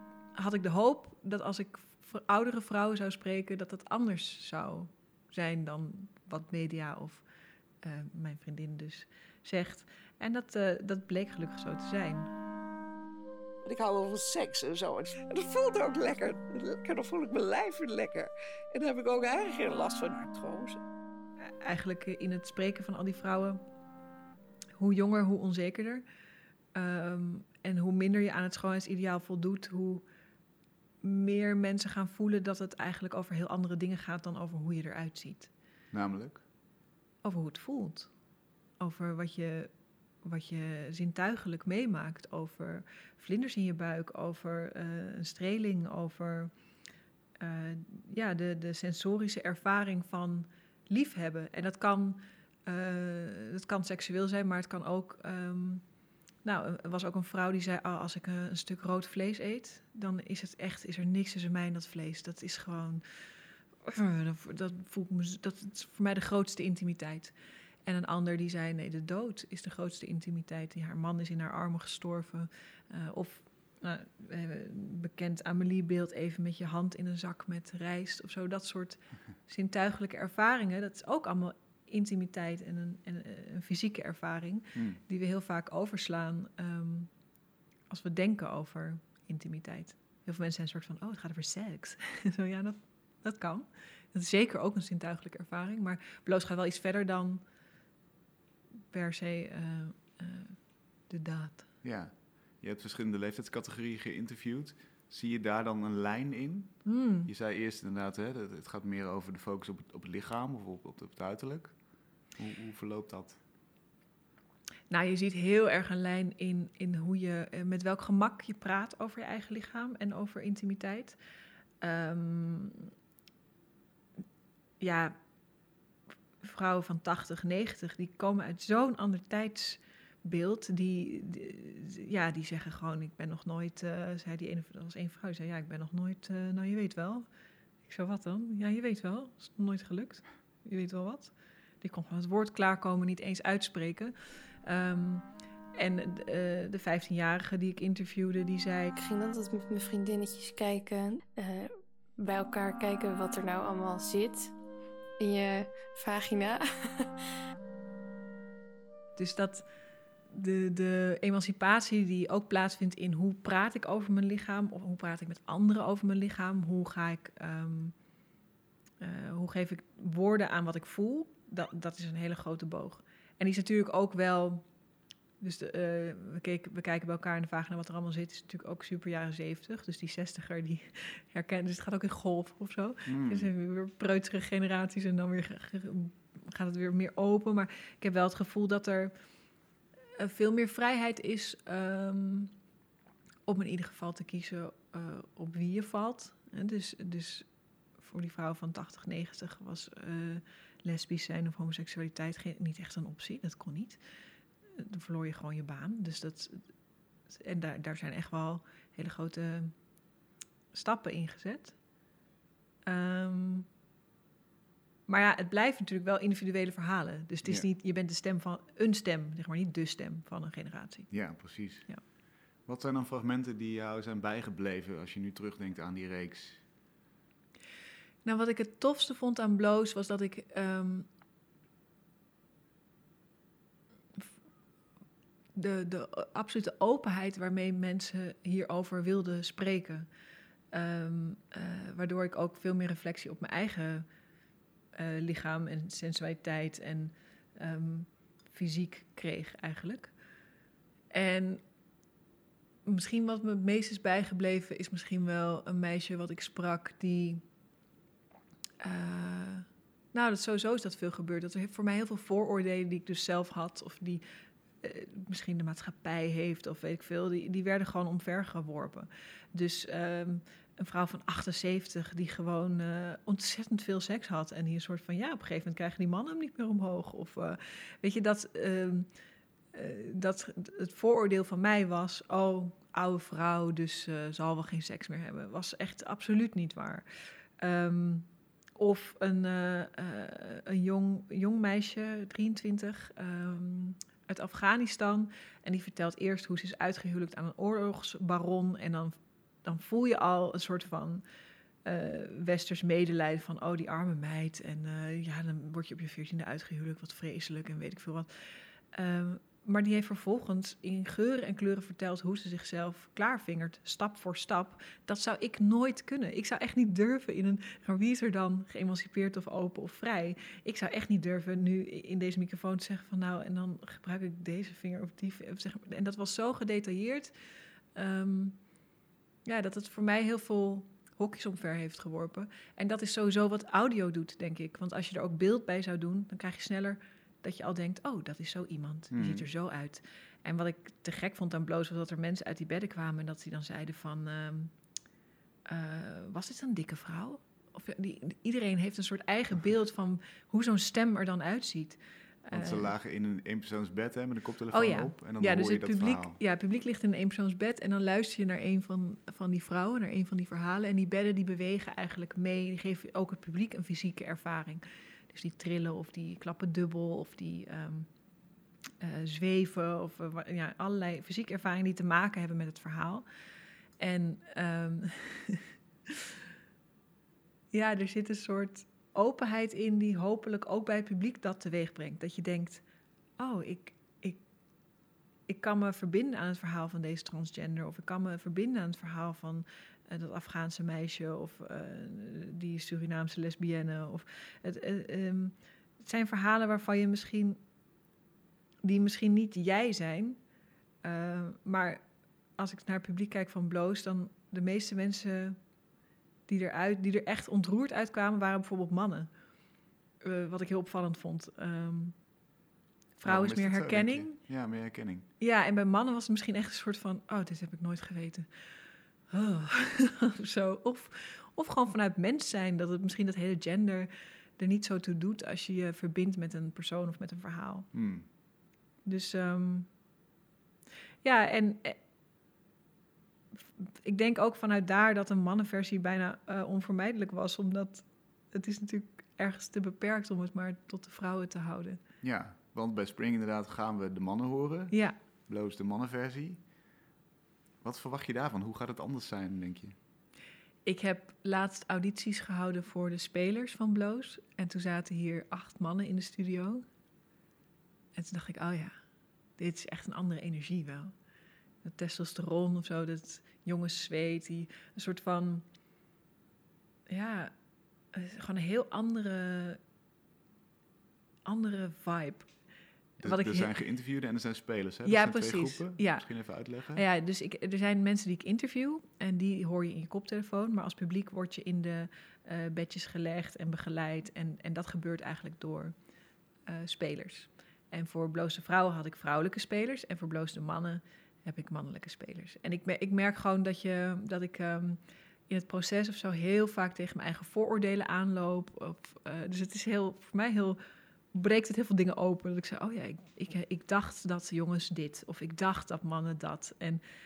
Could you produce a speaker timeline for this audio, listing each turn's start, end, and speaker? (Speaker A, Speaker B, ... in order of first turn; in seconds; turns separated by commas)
Speaker A: 0.3-7.2, Speaker A: 7.8-12.3, Speaker B: 13.6-20.8, Speaker A: 21.6-23.6, Speaker A: 24.8-26.0, Speaker A: 26.7-30.0, Speaker A: 31.0-35.5, Speaker C: 35.9-36.4, Speaker A: 37.2-38.1, Speaker A: 38.8-39.7, Speaker A: 40.2-46.5, Speaker A: 47.4-55.8, Speaker A: 56.4-63.3, Speaker A: 63.8-67.3, Speaker A: 67.8-87.1, Speaker C: 84.7-85.0, Speaker A: 87.9-97.4, Speaker A: 98.9-101.6, Speaker C: 101.8-111.8, Speaker A: 106.8-107.3, Speaker C: 112.3-113.4, Speaker A: 114.9-121.2, Speaker A: 121.8-122.9, Speaker A: 124.8-125.2, Speaker A: 126.4-137.3, Speaker A: 137.8-149.0, Speaker D: 148.9-154.5, Speaker D: 155.2-157.1, Speaker A: 159.2-159.6, Speaker A: 160.3-167.9, Speaker A: 169.0-174.6, Speaker A: 175.4-189.1, Speaker C: 183.1-183.5, Speaker A: 190.2-192.5, Speaker A: 193.5-197.4, Speaker A: 198.0-204.0, Speaker A: 204.8-206.7, Speaker A: 207.3-209.7, Speaker A: 210.7-211.8, Speaker A: 212.8-213.7, Speaker A: 215.1-222.0, Speaker C: 221.1-226.6, Speaker A: 228.2-231.1, Speaker A: 235.5-240.1, Speaker A: 240.7-244.1, Speaker A: 244.9-250.1, Speaker A: 251.1-251.6, Speaker A: 252.8-257.4, Speaker A: 258.8-264.2, Speaker A: 264.8-279.1, Speaker A: 279.7-287.0, Speaker A: 287.6-301.2, Speaker A: 301.8-308.3, Speaker A: 308.9-327.3, Speaker A: 327.9-328.6, Speaker A: 329.4-344.7, Speaker C: 339.1-339.5, Speaker A: 345.7-352.9, Speaker C: 352.5-356.4, Speaker A: 354.7-368.1, Speaker A: 369.0-373.2, Speaker A: 374.0-375.7, Speaker A: 377.7-382.8, Speaker A: 383.4-384.4, Speaker A: 385.5-397.6, Speaker A: 398.8-400.4, Speaker A: 401.0-402.0, Speaker A: 402.6-405.6, Speaker A: 406.5-409.3, Speaker A: 410.2-412.1, Speaker A: 413.2-414.4, Speaker C: 413.2-415.3, Speaker A: 415.4-418.5, Speaker A: 419.3-427.9, Speaker C: 427.9-428.2, Speaker A: 429.0-429.9, Speaker A: 431.2-432.0, Speaker A: 433.8-442.0, Speaker C: 442.2-446.6, Speaker A: 444.9-445.2, Speaker C: 447.8-449.9, Speaker A: 450.8-456.8, Speaker A: 458.1-459.0, Speaker A: 459.6-461.1, Speaker A: 461.8-465.6, Speaker A: 467.1-467.5, Speaker A: 468.1-469.8, Speaker A: 471.4-472.5, Speaker C: 473.2-477.0, Speaker A: 473.2-473.8, Speaker A: 475.0-485.9, Speaker A: 486.7-500.8, Speaker A: 501.3-507.0